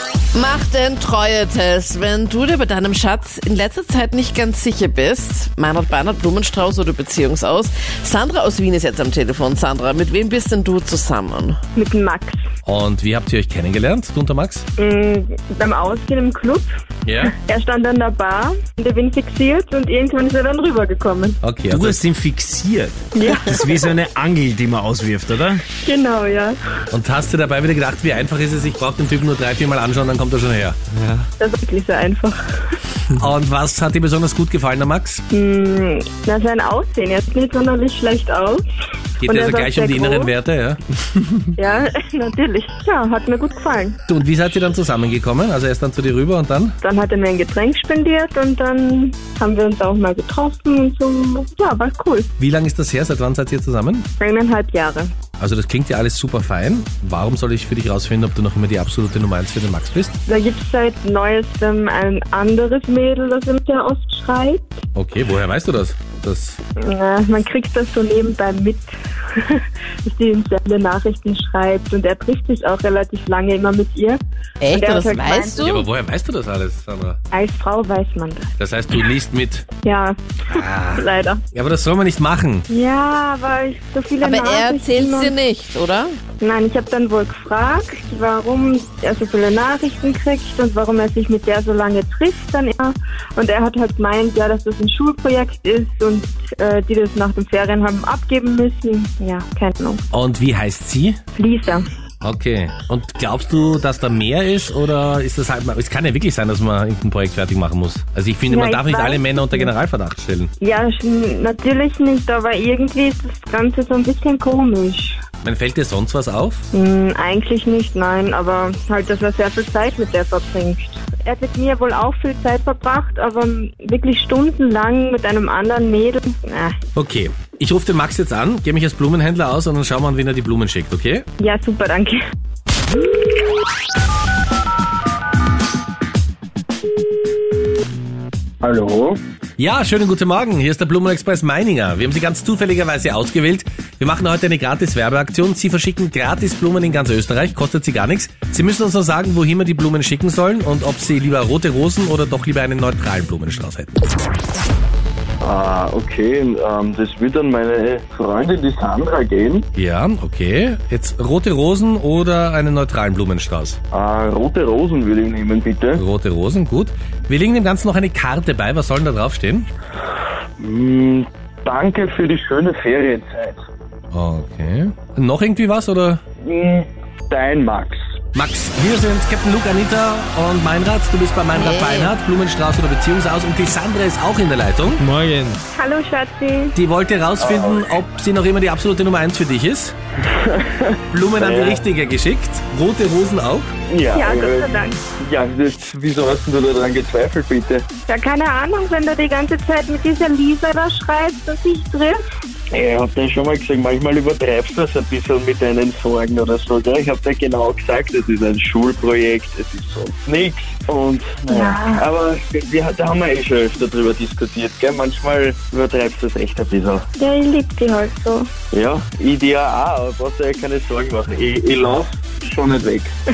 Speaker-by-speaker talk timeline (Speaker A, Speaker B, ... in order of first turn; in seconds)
Speaker A: 0.3-11.6, 74.6-75.9, 84.2-86.1, 181.5-182.1
Speaker B: 11.8-12.4, 14.8-16.7, 17.4-21.4, 23.1-23.8, 25.8-26.6, 31.4-32.8, 35.3-38.6, 39.2-40.3, 41.6-44.0, 46.8-52.3, 54.2-55.1, 60.3-64.8, 66.8-74.2, 74.7-75.7, 77.3-78.5, 79.8-81.4, 82.7-85.3, 86.4-100.0, 101.4-101.8, 108.5-109.7, 110.6-115.2, 116.7-126.8, 131.4-132.2, 185.7-186.8, 194.1-195.0, 198.1-202.2, 211.5-212.1, 217.2-218.5
Speaker C: 12.7-14.7, 17.1-17.3, 21.4-22.0, 26.9-30.8, 33.1-35.2, 39.2-40.8, 44.1-46.8, 52.4-54.1, 55.4-60.1, 65.0-66.6, 75.6-77.2, 78.6-79.7, 80.5-82.7, 100.1-101.2, 102.2-110.5, 115.4-116.6, 127.0-131.3, 139.6-153.9, 159.8-163.8, 166.0-169.7, 174.1-176.2, 178.3-185.0, 186.8-189.9, 191.1-193.7
Speaker D: 21.7-25.6, 31.0-31.3, 185.0-185.6
Speaker E: 138.6-139.2, 155.4-159.7, 163.9-166.0, 170.6-173.6, 176.4-178.0, 187.4-187.8, 190.3-191.8, 193.9-197.8, 202.7-217.1, 218.7-223.1